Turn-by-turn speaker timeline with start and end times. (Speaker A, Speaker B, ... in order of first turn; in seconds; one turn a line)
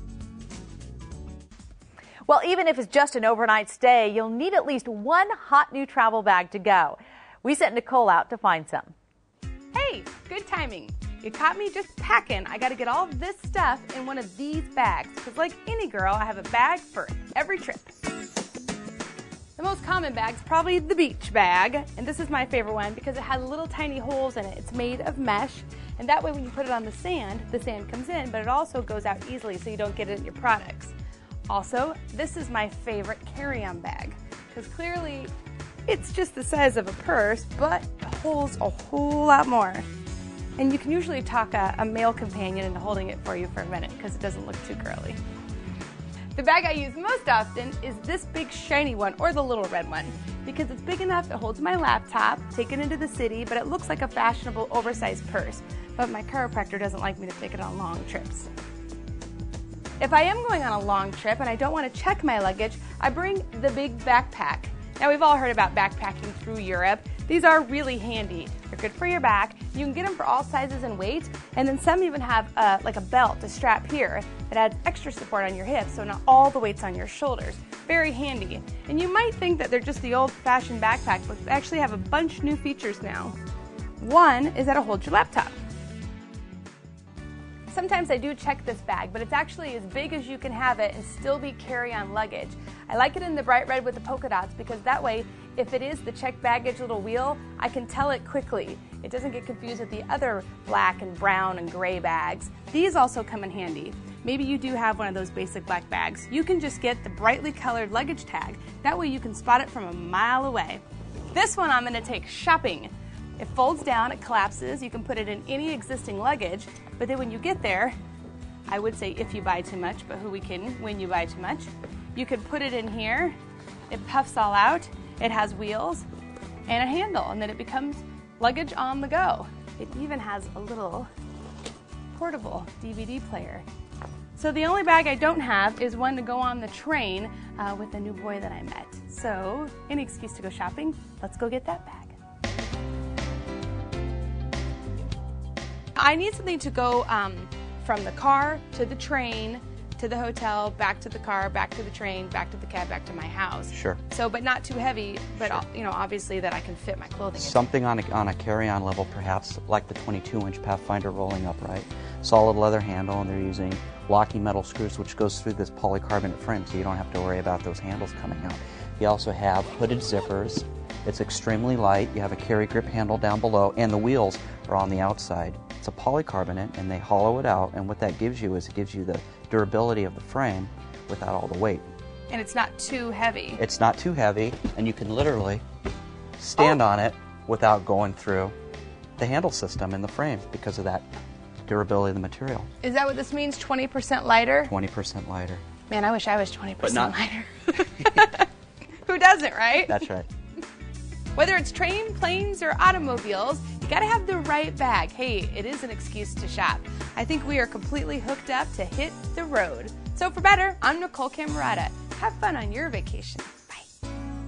Speaker A: 2.2-8.9
Speaker B: 9.7-17.9
Speaker B: 19.6-30.9
Speaker B: 31.5-35.3
Speaker B: 35.9-39.8
Speaker B: 40.6-45.2
Speaker B: 46.4-58.5
Speaker B: 60.0-83.4
Speaker B: 84.0-85.6
Speaker B: 87.7-117.9
Speaker B: 118.7-123.3
Speaker B: 123.9-126.0
Speaker B: 126.7-131.1
Speaker B: 132.1-133.6
Speaker B: 134.3-142.2
Speaker B: 145.9-157.6
Speaker C: 153.7-154.0
Speaker C: 157.4-181.8
Speaker B: 182.3-183.6
Speaker C: 183.6-185.6
Speaker C: 186.4-188.5
Speaker C: 189.2-191.1
Speaker C: 191.7-192.7
Speaker B: 192.8-194.7
Speaker C: 194.6-195.6
Speaker B: 195.9-198.5
Speaker C: 196.8-197.1
Speaker B: 199.0-199.9
Speaker C: 199.8-200.3
Speaker B: 201.3-213.9